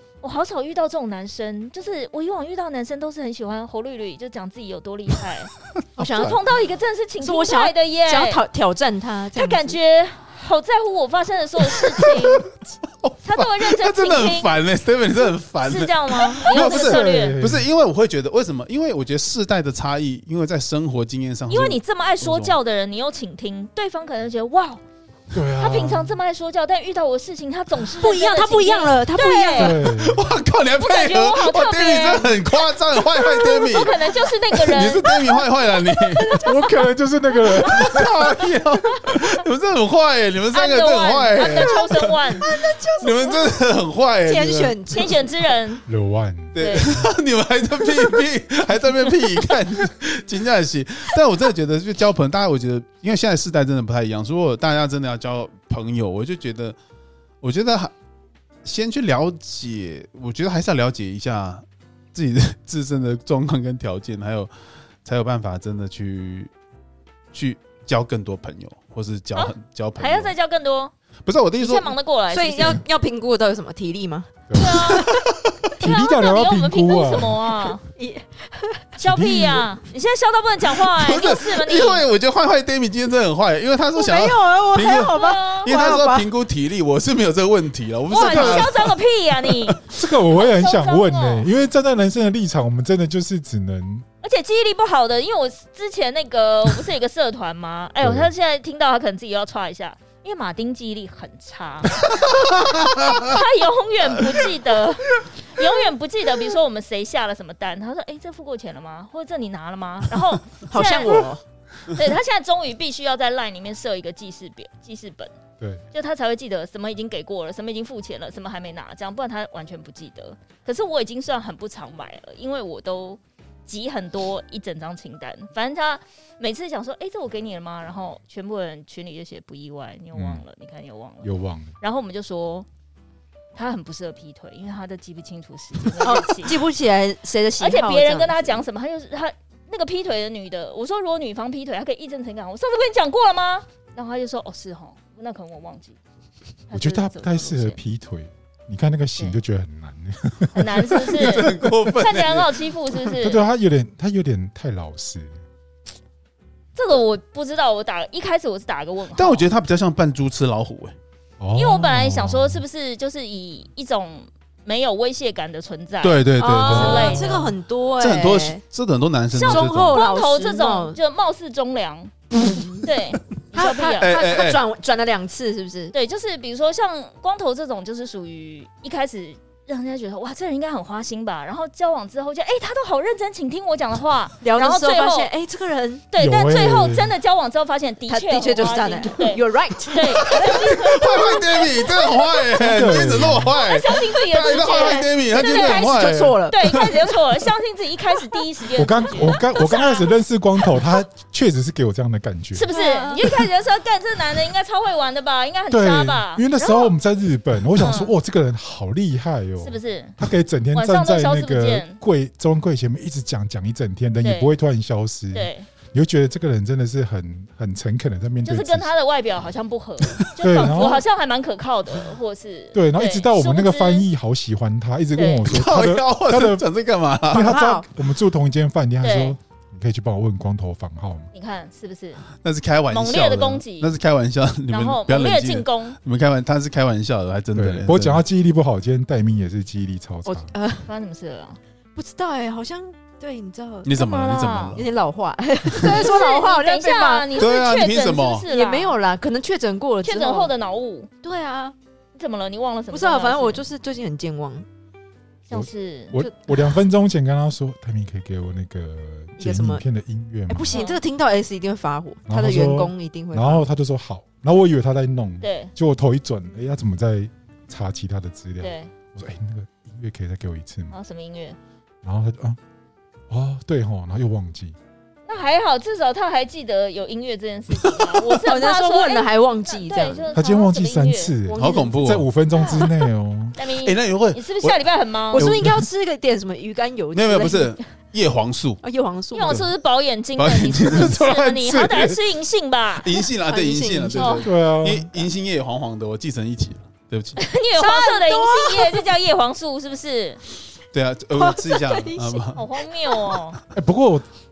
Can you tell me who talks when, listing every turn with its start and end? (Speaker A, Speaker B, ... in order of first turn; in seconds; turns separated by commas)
Speaker A: 0.2-8.4, Speaker B: 6.0-6.4, Speaker C: 6.0-6.4, Speaker B: 7.2-9.8, Speaker A: 9.3-12.5, Speaker C: 12.0-12.5, Speaker C: 13.0-22.6, Speaker A: 13.2-14.5, Speaker A: 15.6-17.4, Speaker D: 16.5-17.7, Speaker A: 21.5-24.8, Speaker D: 25.3-26.1, Speaker A: 25.6-29.8, Speaker B: 28.0-29.9, Speaker D: 29.6-30.4, Speaker C: 29.9-36.4, Speaker A: 30.8-32.5, Speaker A: 33.3-35.2, Speaker B: 36.1-36.8, Speaker D: 36.4-38.2, Speaker B: 37.5-38.1, Speaker C: 37.6-44.8, Speaker A: 40.5-42.5, Speaker B: 41.4-41.8, Speaker B: 42.4-43.5, Speaker B: 44.2-45.2, Speaker A: 44.9-45.8, Speaker D: 45.9-47.0, Speaker C: 46.5-56.8, Speaker A: 46.6-47.0, Speaker C: 57.4-57.9, Speaker C: 58.6-64.5, Speaker C: 65.0-66.5, Speaker C: 67.3-70.3, Speaker A: 69.3-70.9, Speaker C: 71.2-71.9, Speaker A: 71.6-72.8, Speaker B: 72.3-74.3, Speaker D: 74.5-75.0, Speaker A: 74.5-75.1, Speaker B: 74.9-75.2, Speaker C: 75.0-75.7, Speaker D: 75.8-77.7, Speaker A: 75.8-77.8, Speaker B: 78.0-78.8, Speaker D: 79.0-79.7, Speaker A: 79.0-82.0, Speaker C: 80.8-89.8, Speaker B: 83.9-86.3, Speaker A: 85.1-85.7, Speaker A: 88.1-91.5, Speaker D: 88.3-88.7, Speaker D: 89.9-94.0, Speaker A: 94.2-102.2, Speaker D: 98.0-98.3, Speaker C: 102.4-103.2, Speaker A: 102.7-111.2, Speaker B: 110.7-111.4, Speaker A: 111.9-115.3, Speaker A: 115.9-132.7, Speaker D: 130.1-130.4, Speaker D: 131.2-131.7, Speaker A: 133.5-136.6, Speaker B: 136.0-138.6, Speaker A: 137.6-146.0, Speaker A: 146.7-147.8, Speaker D: 146.7-151.9, Speaker A: 150.5-153.4, Speaker C: 151.1-153.1, Speaker D: 153.2-155.4, Speaker A: 156.8-159.5, Speaker C: 159.1-160.9, Speaker D: 161.4-162.6, Speaker A: 161.5-167.4, Speaker C: 166.0-167.3, Speaker B: 166.4-168.6, Speaker D: 166.8-167.5, Speaker C: 168.0-170.0, Speaker A: 169.3-172.1, Speaker B: 169.4-171.0, Speaker B: 172.5-172.8, Speaker A: 172.6-174.2, Speaker B: 173.5-175.9, Speaker C: 174.0-174.6, Speaker A: 175.9-185.3, Speaker B: 184.4-186.1, Speaker A: 186.1-192.4, Speaker D: 186.2-187.1, Speaker B: 188.1-191.4, Speaker C: 190.3-196.8, Speaker D: 192.5-193.6, Speaker A: 193.5-200.1, Speaker B: 194.5-197.1, Speaker D: 198.8-202.7, Speaker B: 199.2-199.8, Speaker A: 202.5-206.9, Speaker B: 202.7-203.4, Speaker D: 205.7-218.9, Speaker A: 207.8-208.1, Speaker A: 209.6-210.2, Speaker A: 210.7-212.0, Speaker A: 214.2-214.5, Speaker A: 215.3-215.7, Speaker A: 218.4-224.1, Speaker D: 220.4-221.0, Speaker D: 222.7-226.6, Speaker A: 225.1-225.4, Speaker C: 225.4-227.6, Speaker D: 227.3-231.3, Speaker B: 227.3-227.8, Speaker A: 229.0-229.3, Speaker A: 231.3-232.2, Speaker C: 232.4-238.2, Speaker A: 232.9-233.9, Speaker A: 234.7-236.0, Speaker D: 237.5-240.5, Speaker B: 240.2-240.9, Speaker A: 240.8-241.6, Speaker B: 241.9-243.9, Speaker C: 243.8-244.9, Speaker A: 243.9-244.8, Speaker B: 244.7-247.4, Speaker A: 245.8-249.0, Speaker C: 247.3-248.4, Speaker B: 248.4-250.5, Speaker A: 250.0-251.1, Speaker B: 251.2-251.8, Speaker A: 252.1-253.6, Speaker B: 252.9-254.7, Speaker A: 255.5-256.2, Speaker D: 255.5-260.8, Speaker B: 259.4-259.8, Speaker B: 260.5-263.6, Speaker A: 260.7-261.0, Speaker D: 262.3-270.9, Speaker A: 265.4-265.7, Speaker A: 268.6-268.9, Speaker A: 270.9-271.6, Speaker D: 272.0-272.6, Speaker D: 273.3-274.8, Speaker A: 275.3-281.3, Speaker B: 278.3-280.3, Speaker D: 280.3-283.6, Speaker B: 281.5-282.0, Speaker C: 281.5-282.3, Speaker A: 282.6-282.9, Speaker A: 283.6-285.4, Speaker C: 283.8-285.8, Speaker B: 285.3-287.8, Speaker C: 287.1-288.8, Speaker B: 288.8-289.6, Speaker A: 289.3-293.2, Speaker C: 289.4-289.7, Speaker C: 290.4-292.2, Speaker C: 293.0-297.4, Speaker B: 293.4-294.4, Speaker A: 294.2-294.4, Speaker D: 294.4-295.1, Speaker A: 297.4-300.4, Speaker B: 297.8-299.1, Speaker C: 300.9-302.6, Speaker B: 301.3-302.6, Speaker A: 302.5-303.6, Speaker D: 303.7-304.2